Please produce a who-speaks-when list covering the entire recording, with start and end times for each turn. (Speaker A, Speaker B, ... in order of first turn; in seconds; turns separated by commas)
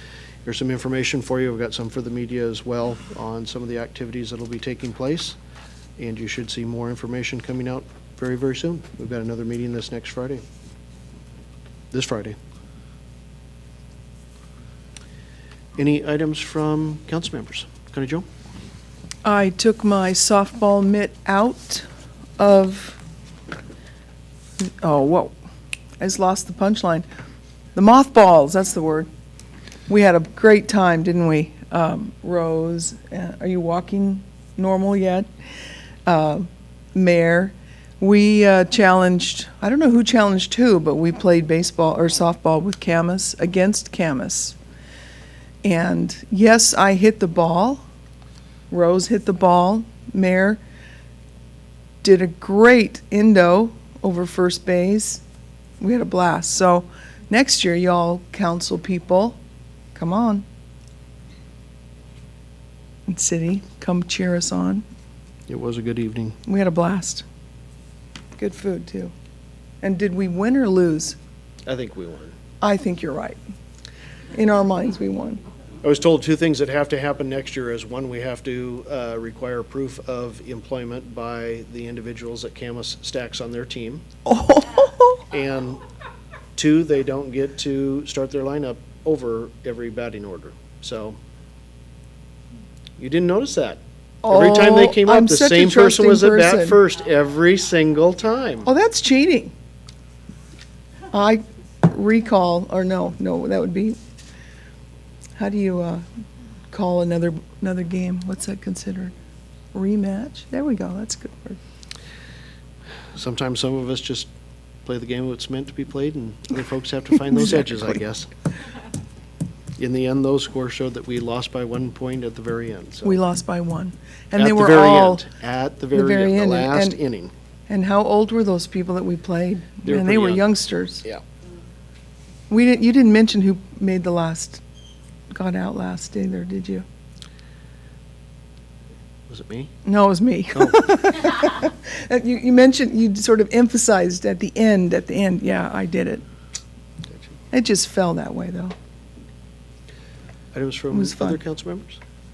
Speaker A: 0.4-5.4, Speaker A: 6.0-10.4, Speaker A: 11.9-12.4, Speaker A: 15.8-18.3, Speaker B: 19.2-21.9, Speaker B: 22.4-23.0, Speaker B: 24.6-25.3, Speaker B: 26.0-27.1, Speaker B: 27.7-29.1, Speaker B: 29.9-35.3, Speaker B: 36.0-44.6, Speaker B: 45.6-47.8, Speaker B: 48.7-50.6, Speaker B: 52.0-55.2, Speaker B: 55.8-59.4, Speaker B: 59.9-60.4, Speaker B: 63.1-64.8, Speaker A: 65.5-66.4, Speaker B: 66.5-67.2, Speaker B: 68.4-69.1, Speaker B: 69.8-71.2, Speaker A: 71.6-72.3, Speaker B: 72.6-73.4, Speaker B: 74.3-75.4, Speaker A: 75.8-84.0, Speaker B: 84.2-85.2, Speaker A: 85.3-85.8, Speaker A: 86.5-91.2, Speaker A: 93.0-98.7, Speaker B: 94.2-96.8, Speaker B: 98.7-99.5, Speaker B: 101.1-104.0, Speaker B: 105.4-106.0, Speaker B: 106.7-109.1, Speaker B: 109.7-111.6, Speaker A: 113.1-114.3, Speaker A: 114.8-118.3, Speaker A: 119.8-123.2, Speaker B: 123.0-125.3, Speaker A: 124.3-127.3, Speaker B: 125.9-127.0, Speaker B: 127.7-131.0, Speaker A: 129.8-130.4, Speaker B: 132.5-134.6, Speaker B: 135.3-136.8, Speaker A: 139.3-139.7, Speaker B: 139.8-146.2, Speaker A: 147.1-147.3, Speaker B: 147.5-148.7, Speaker A: 150.5-152.0, Speaker B: 150.9-151.4